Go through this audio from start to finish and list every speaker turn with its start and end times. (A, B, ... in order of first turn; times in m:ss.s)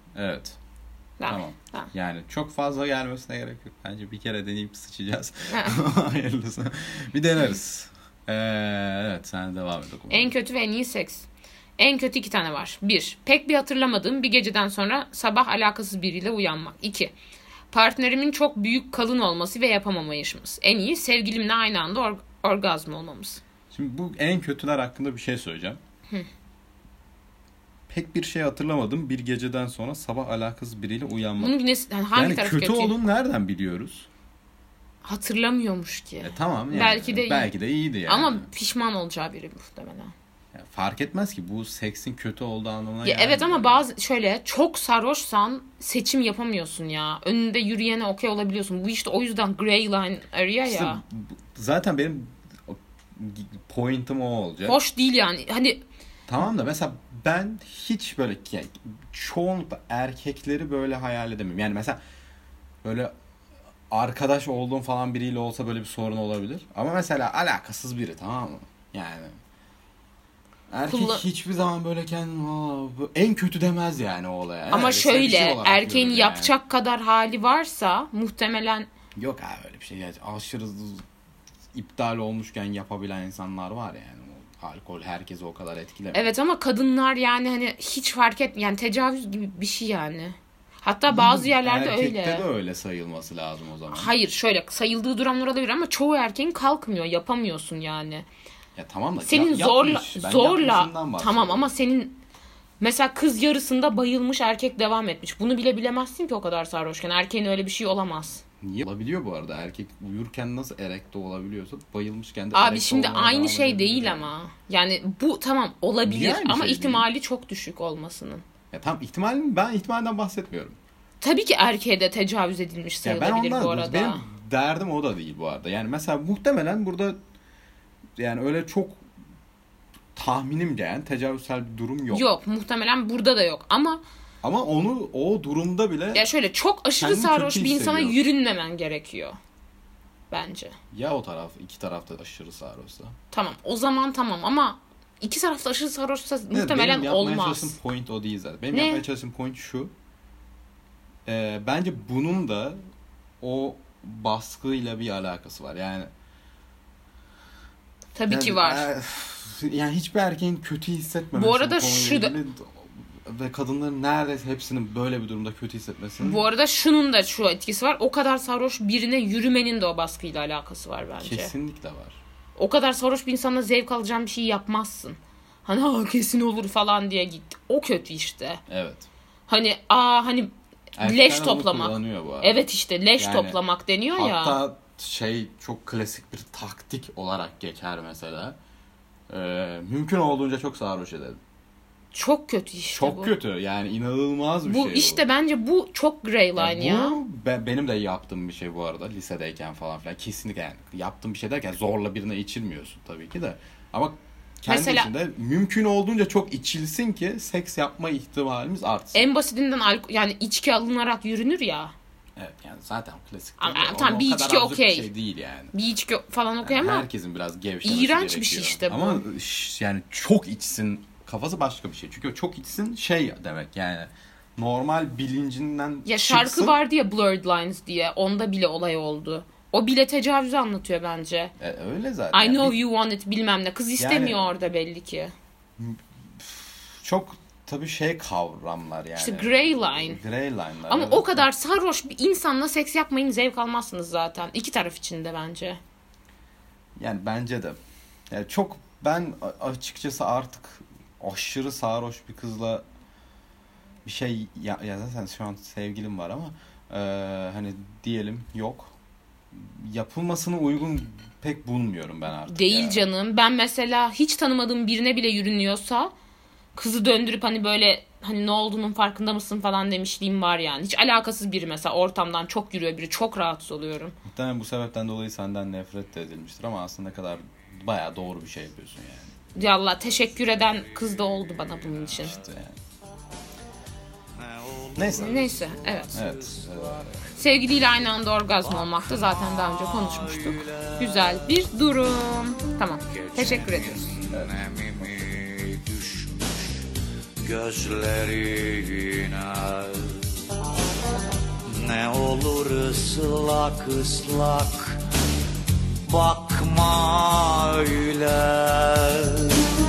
0:00.1-0:00.6 A
0:01.2-0:01.9 B
0:01.2-0:10.3 A
0:05.5-0:05.8 B
0:10.1-0:17.1 B
0:17.7-0:23.4 B
0:23.7-0:25.8 A
0:27.9-0:31.6 A
0:31.4-0:33.0 B
0:32.1-0:34.1 A
0:35.0-0:40.1 B
0:36.2-0:38.5 A
0:40.5-0:43.8 A
0:43.0-0:51.0 B
0:50.6-0:54.8 A
0:54.6-0:55.8 B
0:56.3-1:02.0 A
1:02.8-1:03.1 A
1:03.9-1:09.3 A
1:10.7-1:16.5 A
1:10.9-1:11.2 B
1:14.7-1:18.9 B
1:19.2-1:21.0 A
1:21.7-1:26.3 A
1:26.1-1:32.4 B
1:31.1-1:34.1 A
1:33.9-1:38.2 B
1:38.8-1:41.7 A
1:39.2-1:42.2 B
1:42.8-1:48.4 B
1:48.6-1:54.3 A
1:52.5-1:58.4 B
1:56.0-1:57.1 A
1:58.7-2:00.8 A
2:01.2-2:04.2 B
2:03.0-2:07.2 A
2:08.2-2:09.0 A
2:10.1-2:12.3 A
2:12.1-2:14.0 B
2:14.4-2:16.3 A
2:16.1-2:19.4 B
2:17.0-2:18.2 A
2:20.3-2:20.7 B
2:20.9-2:23.1 A
2:23.3-2:27.8 B
2:26.5-2:29.9 A
2:28.7-2:29.0 B
2:31.2-2:32.8 A
2:33.4-2:36.1 A
2:38.1-2:38.9 B
2:38.3-2:46.4 A
2:41.3-2:42.4 B
2:46.2-2:51.5 B
2:51.2-2:52.2 A
2:52.6-2:58.6 B
2:58.7-2:59.1 A
2:59.5-3:04.6 B
3:01.0-3:02.6 A
3:03.2-3:03.6 A
3:04.1-3:08.6 A
3:09.3-3:11.4 A
3:12.1-3:13.3 B
3:12.9-3:15.2 A
3:14.6-3:17.2 B
3:16.6-3:29.3 A
3:24.7-3:25.1 B
3:29.1-3:31.9 B
3:32.4-3:35.7 A
3:33.6-3:35.1 B
3:35.7-3:37.1 B
3:36.6-3:46.8 A
3:37.8-3:39.2 B
3:46.0-3:51.5 B
3:51.6-3:52.8 A
3:52.3-3:55.3 B
3:54.0-3:54.5 A
3:55.8-4:01.5 A
3:59.2-4:00.2 B
4:00.9-4:05.8 B
4:07.0-4:07.8 A
4:08.3-4:12.8 A
4:14.0-4:18.9 A
4:19.5-4:23.1 A
4:22.5-4:26.1 B
4:26.7-4:34.2 B
4:34.2-4:39.3 A
4:39.5-4:42.4 B
4:42.1-4:42.8 A
4:44.4-4:47.2 C
4:44.9-4:45.5 A
4:45.0-4:46.2 B
4:46.1-4:47.4 A
4:47.3-4:54.2 B
4:49.7-4:51.0 C
4:53.2-4:56.8 C
4:54.3-4:54.6 A
4:57.4-5:00.4 C
5:01.6-5:05.0 C
5:06.0-5:09.6 C